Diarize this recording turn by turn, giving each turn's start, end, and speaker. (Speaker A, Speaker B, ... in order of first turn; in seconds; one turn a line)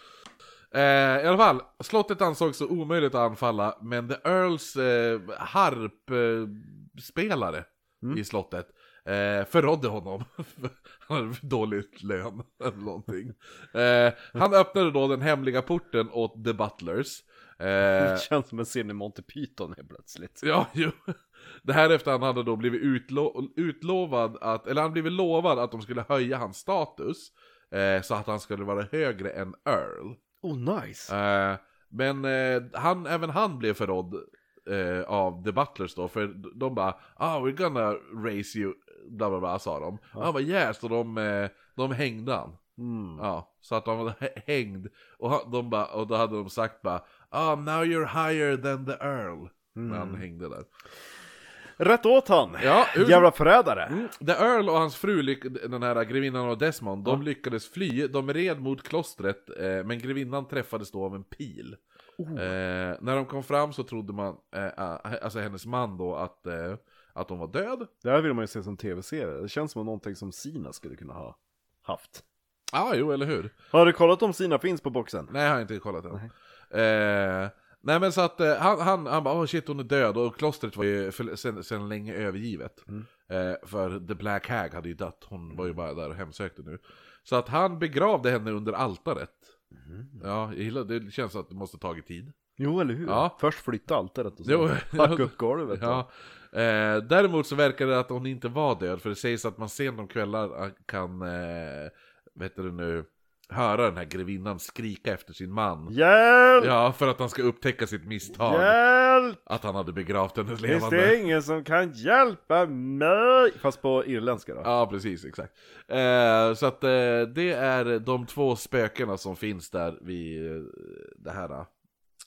Speaker A: 0.7-18.3
Speaker B: 17.9-20.5
Speaker A: 20.4-21.1
Speaker A: 21.6-30.2
Speaker B: 30.4-31.1
Speaker A: 31.1-42.6
Speaker B: 42.8-43.3
Speaker A: 43.2-50.7
Speaker B: 49.8-50.3
Speaker B: 51.8-54.0
Speaker A: 52.6-53.3
Speaker A: 53.9-61.8
Speaker B: 62.2-62.6
Speaker A: 62.4-67.9
Speaker B: 68.0-72.2
Speaker A: 72.7-73.5
Speaker B: 73.7-75.3
Speaker A: 75.3-89.5
Speaker B: 89.8-90.2
Speaker A: 90.2-92.3
Speaker B: 92.6-96.0
Speaker A: 93.1-93.3
Speaker A: 94.4-105.9
Speaker B: 105.9-106.8
Speaker A: 106.6-108.8
Speaker B: 108.3-109.4
Speaker A: 109.5-111.2
Speaker B: 110.7-114.7
Speaker A: 114.6-121.7